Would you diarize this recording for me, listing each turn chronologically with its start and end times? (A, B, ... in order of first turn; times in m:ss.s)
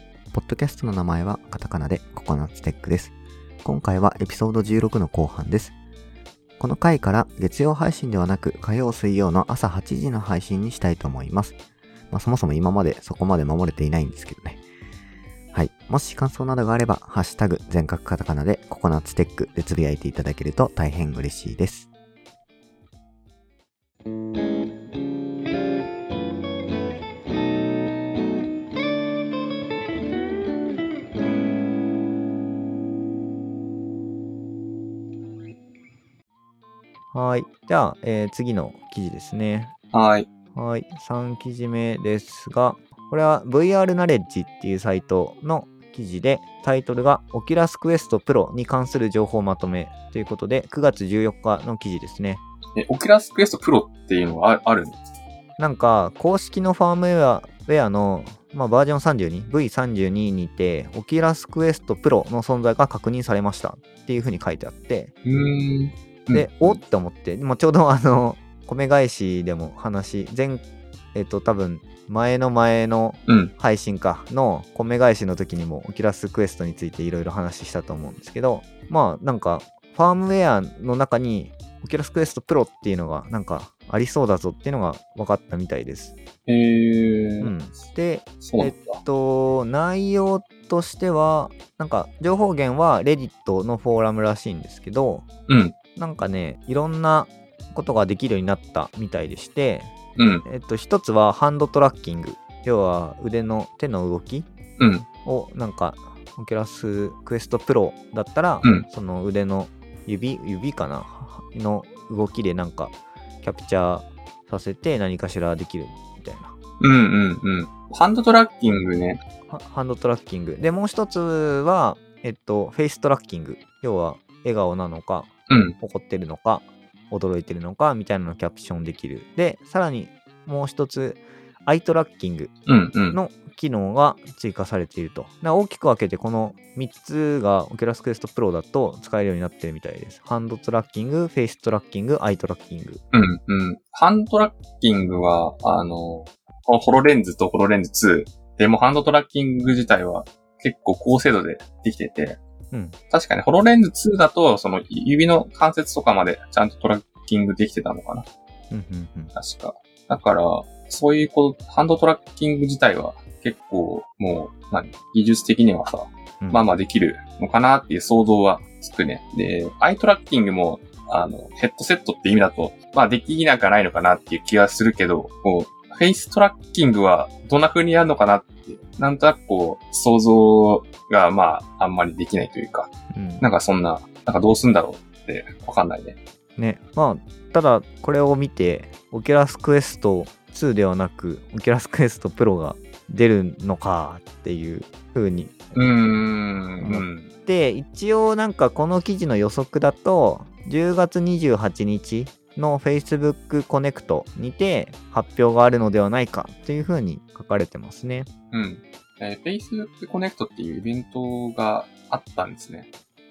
0:00.3-0:05.7 A
0:06.6-0:11.6 A
0:12.1-0:14.6 A
0:15.5-0:21.9 A
0:37.1-0:39.7 B
0:39.9-0:40.3 C
0:40.5-0:52.4 B
0:52.8-0:55.0 C
0:55.6-1:05.1 B
1:05.2-1:06.8 C
1:06.3-1:26.2 B
1:13.3-1:13.5 C
1:26.5-1:27.6 C
1:27.4-1:35.3 B
1:28.4-1:29.0 C
1:35.5-1:35.8 C
1:36.0-1:39.9 B
1:40.2-1:40.4 C
1:40.4-1:44.5 B
1:44.8-1:45.1 C
1:45.2-1:56.5 B
1:56.8-1:59.2 C
1:59.5-2:12.5 B
2:05.5-2:05.8 C
2:12.7-2:13.2 C
2:13.1-2:23.0 B
2:23.1-2:32.4 C
2:32.7-2:33.0 B
2:33.1-2:38.3 C
2:38.7-2:39.3 B
2:39.4-3:06.2 C
3:03.1-3:03.5 B
3:06.6-3:15.8 B
3:15.8-3:17.3 C
3:16.8-3:28.3 B
3:28.5-3:32.9 C